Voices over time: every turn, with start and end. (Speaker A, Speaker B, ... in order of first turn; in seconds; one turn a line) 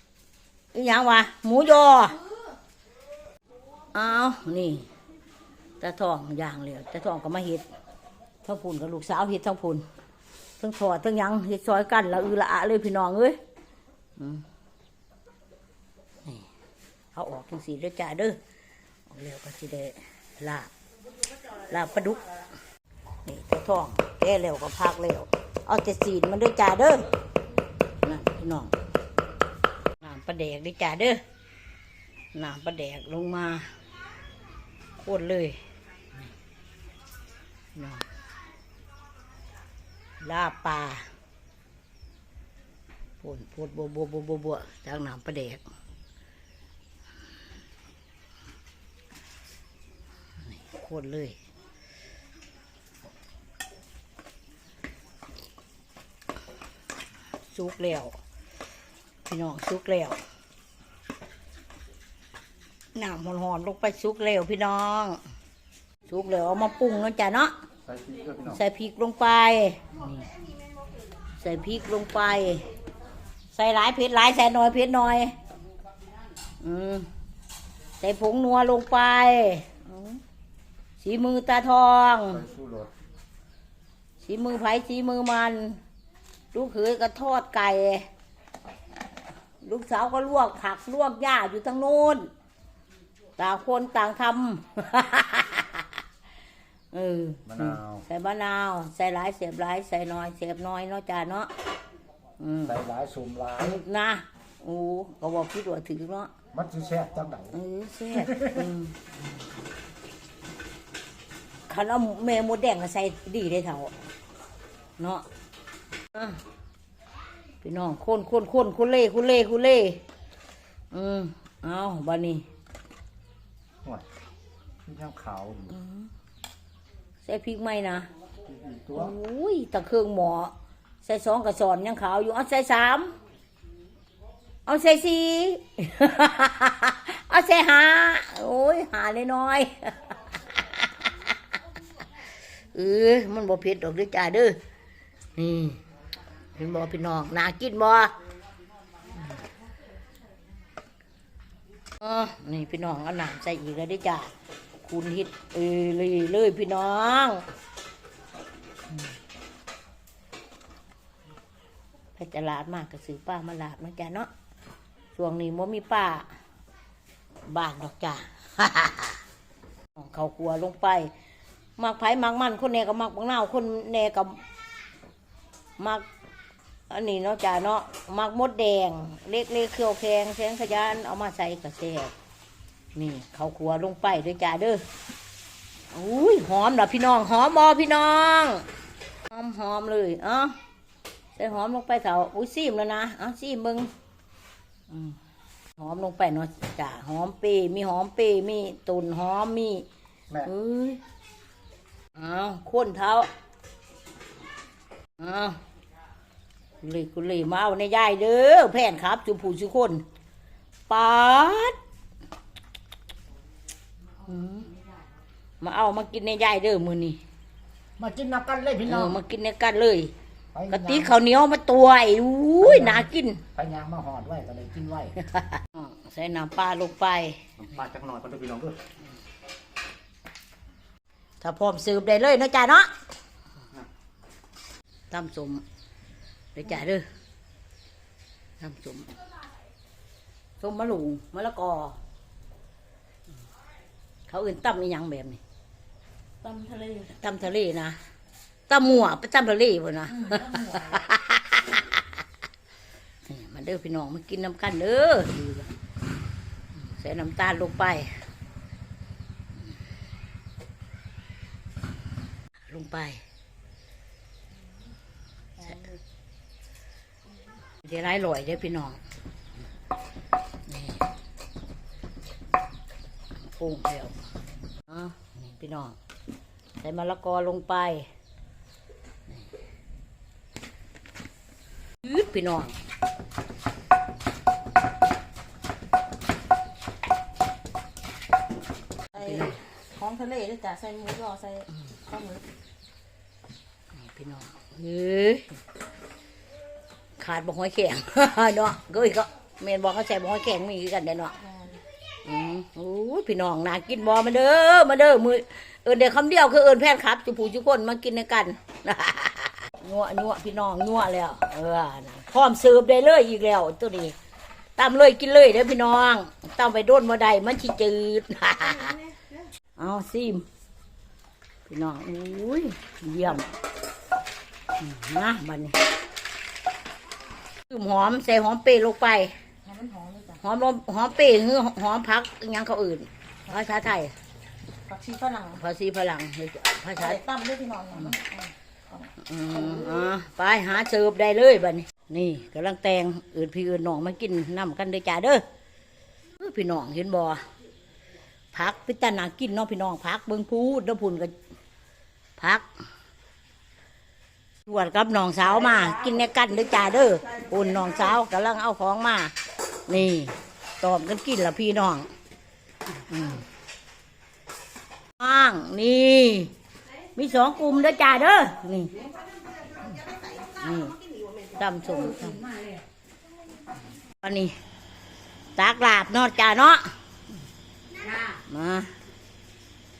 Speaker A: 0.7-2.2
Speaker A: 3.9-4.9
Speaker A: 5.8-7.6
Speaker A: 8.4-9.8
Speaker A: 10.6-13.4
Speaker A: 14.2-14.4
Speaker A: 17.1-18.4
Speaker A: 19.1-20.7
Speaker A: 21.6-22.2
Speaker A: 23.2-27.1
Speaker A: 28.0-28.7
Speaker A: 30.0-31.2
Speaker A: 32.3-33.7
Speaker A: 35.0-35.6
Speaker A: 37.7-38.0
Speaker A: 40.2-41.0
Speaker A: 43.2-45.6
Speaker A: 50.5-51.4
Speaker A: 57.5-58.1
Speaker A: 59.2-60.2
Speaker A: 62.9-65.2
Speaker A: 66.1-67.5
Speaker B: 67.8-68.6
Speaker A: 68.5-70.2
Speaker A: 71.4-72.6
Speaker A: 73.5-75.3
Speaker A: 76.6-77.1
Speaker A: 78.0-80.2
Speaker A: 81.0-82.5
Speaker B: 82.4-82.9
Speaker A: 84.2-85.8
Speaker A: 86.5-88.1
Speaker A: 89.6-92.3
Speaker A: 93.4-95.8
Speaker A: 96.9-101.5
Speaker B: 97.5-98.0
Speaker A: 102.4-102.8
Speaker B: 102.7-103.8
Speaker A: 103.6-106.3
Speaker B: 106.5-107.5
Speaker A: 107.5-109.0
Speaker A: 111.7-113.9
Speaker A: 115.0-115.2
Speaker A: 116.1-116.4
Speaker A: 117.6-120.0
Speaker A: 120.9-122.4
Speaker B: 124.8-125.8
Speaker A: 125.7-126.0
Speaker A: 127.2-128.1
Speaker B: 128.5-129.1
Speaker A: 128.9-133.1
Speaker A: 134.7-140.2
Speaker A: 142.7-144.6
Speaker A: 145.3-145.8
Speaker A: 146.6-148.1
Speaker A: 152.0-154.3
Speaker A: 154.8-157.4
Speaker A: 162.2-164.3
Speaker A: 165.2-166.3
Speaker A: 167.5-169.2
Speaker A: 169.9-171.1
Speaker A: 171.8-174.4
Speaker A: 175.8-176.0
Speaker A: 176.9-182.1
Speaker A: 182.9-184.8
Speaker A: 185.9-188.6
Speaker A: 189.3-190.5
Speaker A: 191.3-193.9
Speaker A: 194.9-195.2
Speaker A: 195.8-199.8
Speaker A: 200.4-201.0
Speaker A: 202.1-203.3
Speaker A: 205.2-205.6
Speaker A: 206.8-210.0
Speaker A: 210.9-211.8
Speaker A: 214.2-214.7
Speaker A: 215.6-217.2
Speaker B: 218.0-219.2
Speaker A: 218.8-220.1
Speaker B: 220.5-221.2
Speaker A: 220.7-223.4
Speaker B: 222.6-225.2
Speaker A: 225.2-227.4
Speaker B: 227.6-228.8
Speaker A: 231.4-232.9
Speaker A: 235.1-235.6
Speaker A: 236.5-237.1
Speaker A: 238.6-239.1
Speaker A: 240.6-242.0
Speaker A: 244.3-245.4
Speaker C: 246.4-247.1
Speaker A: 247.2-248.0
Speaker A: 248.7-251.8
Speaker C: 250.1-251.1
Speaker A: 253.2-255.7
Speaker A: 256.9-258.1
Speaker A: 262.7-263.2
Speaker A: 267.8-269.0
Speaker A: 270.7-271.0
Speaker A: 273.5-274.1
Speaker A: 274.9-275.9
Speaker A: 276.8-278.1
Speaker A: 282.0-282.8
Speaker A: 289.1-289.6
Speaker C: 289.1-292.4
Speaker A: 293.9-295.5
Speaker A: 297.2-301.3
Speaker C: 301.4-301.8
Speaker A: 302.2-314.1
Speaker A: 314.8-319.0
Speaker A: 319.8-320.4
Speaker A: 321.6-323.5
Speaker A: 324.8-325.8
Speaker A: 327.7-329.3
Speaker C: 329.6-330.4
Speaker A: 330.4-334.1
Speaker C: 334.9-335.6
Speaker A: 335.5-337.2
Speaker C: 337.0-340.1
Speaker A: 339.2-345.4
Speaker A: 346.4-347.4
Speaker A: 348.5-351.3
Speaker A: 352.4-352.6
Speaker A: 354.6-359.3
Speaker A: 359.9-362.1
Speaker A: 363.1-363.4
Speaker A: 365.2-366.5
Speaker A: 367.1-369.0
Speaker C: 369.4-371.6
Speaker A: 370.6-371.0
Speaker A: 371.5-372.5
Speaker C: 372.4-372.8
Speaker A: 374.2-374.5
Speaker A: 375.6-376.9
Speaker C: 378.0-378.3
Speaker A: 378.3-378.9